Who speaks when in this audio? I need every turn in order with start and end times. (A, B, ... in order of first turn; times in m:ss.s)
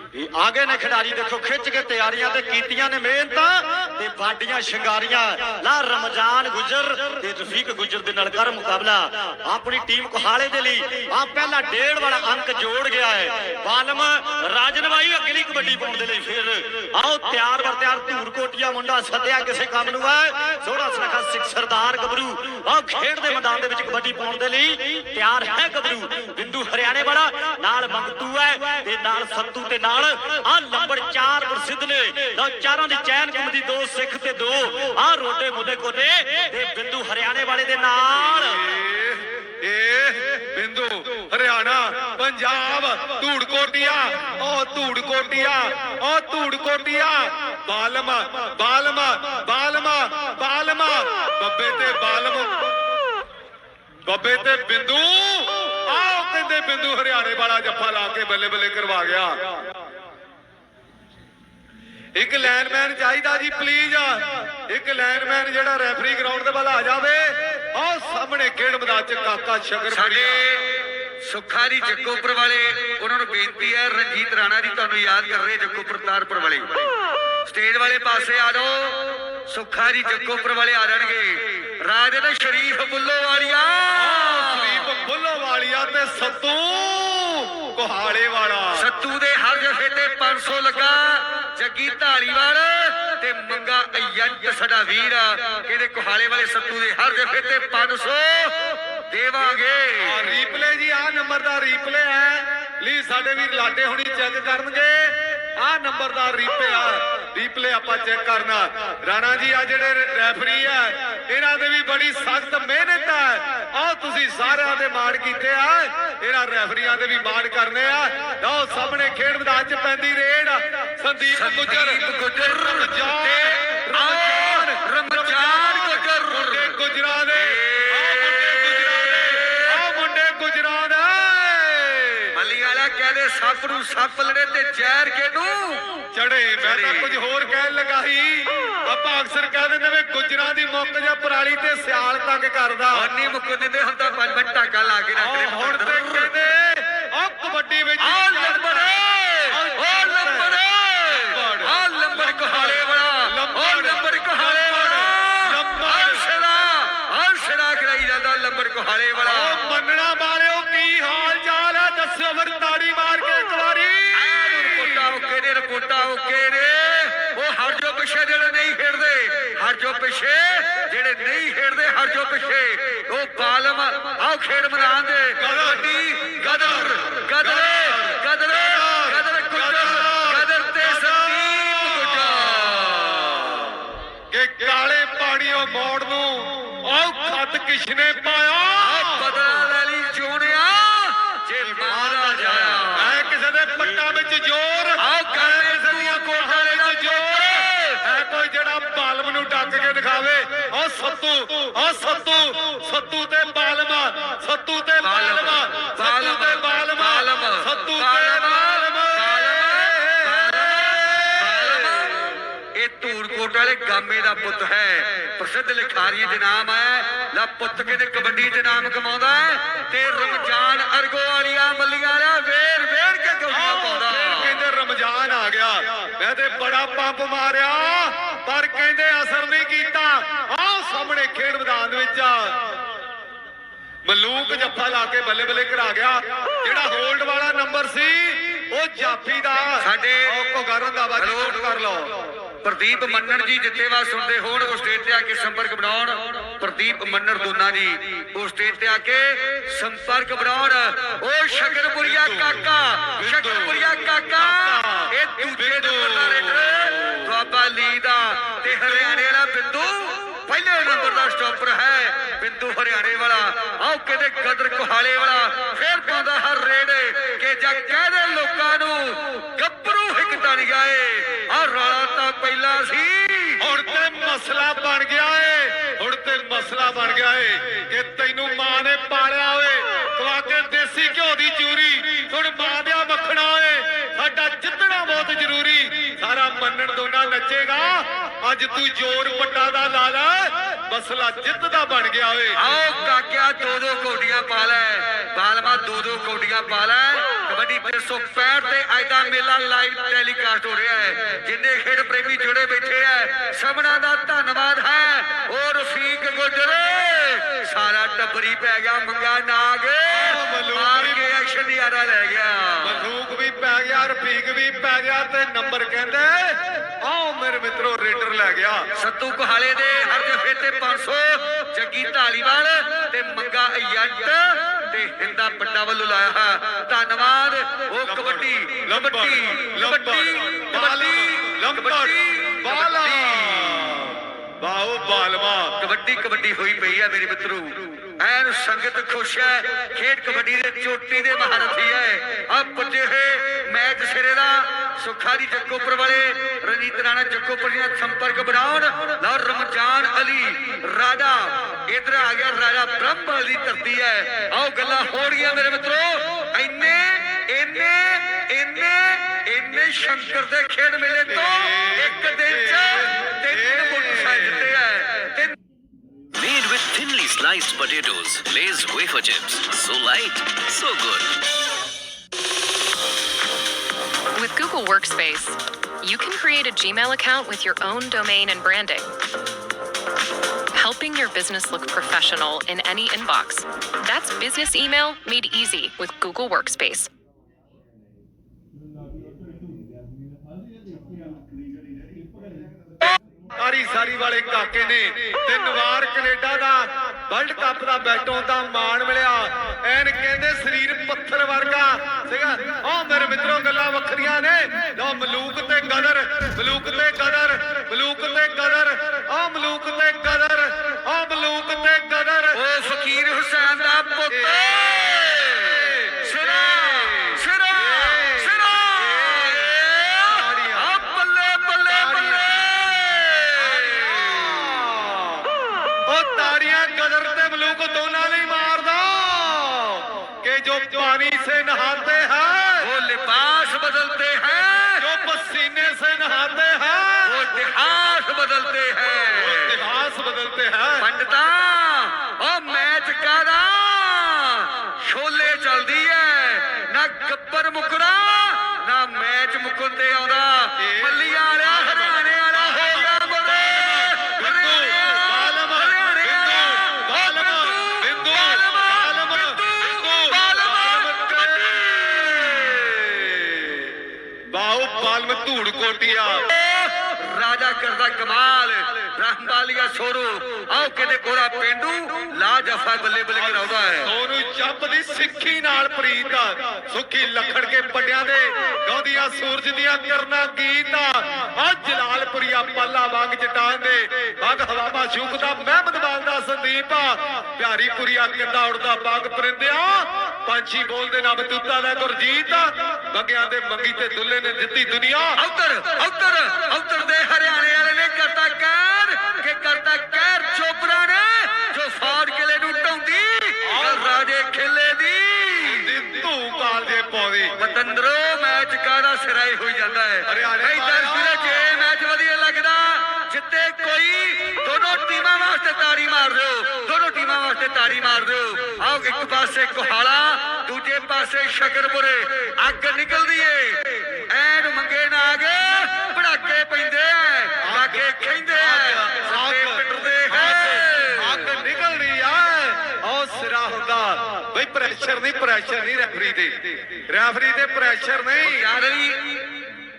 0:00.1-0:38.6 A
0:38.4-0:52.7 B
0:54.1-0:59.6 B
1:02.2-1:10.4 B
1:09.9-1:10.7 C
1:11.2-1:16.9 C
1:17.5-1:24.9 C
1:24.0-1:28.9 B
1:28.8-1:40.3 C
1:40.0-2:02.1 B
2:01.2-2:06.8 C
2:02.7-2:12.3 B
2:07.3-2:09.8 C
2:12.3-2:16.0 C
2:16.1-2:23.1 B
2:16.6-2:17.2 C
2:22.9-2:26.3 C
2:25.2-2:30.6 B
2:28.0-2:39.6 C
2:31.2-2:36.2 B
2:39.2-2:45.1 B
2:44.2-3:03.7 C
2:55.4-2:55.9 B
2:56.4-3:02.7 B
3:04.3-3:09.2 B
3:08.8-3:13.3 C
3:11.9-3:32.1 B
3:15.0-3:18.0 C
3:25.0-3:44.6 C
3:43.5-3:52.6 B
3:54.1-4:02.2 B
3:59.8-4:00.4 C
4:01.2-4:01.8 C
4:02.6-4:33.6 C
4:12.0-4:12.7 B
4:13.2-4:17.3 B
4:33.6-4:52.6 B
4:52.6-5:13.1 C
5:10.1-5:11.3 B
5:12.8-5:18.8 B
5:19.0-5:33.9 C
5:28.0-5:35.8 B
5:35.8-6:05.5 C
6:01.4-6:04.7 B
6:06.3-6:11.3 D
6:14.3-6:19.1 E
6:20.8-6:27.1 E
6:33.6-6:52.6 B
6:52.5-7:04.5 C
6:54.3-6:55.3 B
6:55.8-7:00.9 B
7:01.9-7:02.7 B
7:03.6-7:05.4 B
7:06.1-7:12.9 B
7:12.8-7:15.0 C
7:15.0-7:17.6 B
7:17.2-7:19.8 C
7:19.4-7:21.1 B
7:21.0-7:43.0 C
7:30.8-7:41.8 B
7:43.1-7:43.8 B
7:44.5-7:46.4 B
7:46.5-7:54.1 C
7:53.4-8:15.4 B
8:15.4-8:26.0 C
8:23.6-8:24.2 B
8:25.6-8:27.5 B
8:27.6-8:51.5 C
8:30.2-8:31.7 B
8:47.6-8:58.7 B
8:58.4-8:59.4 C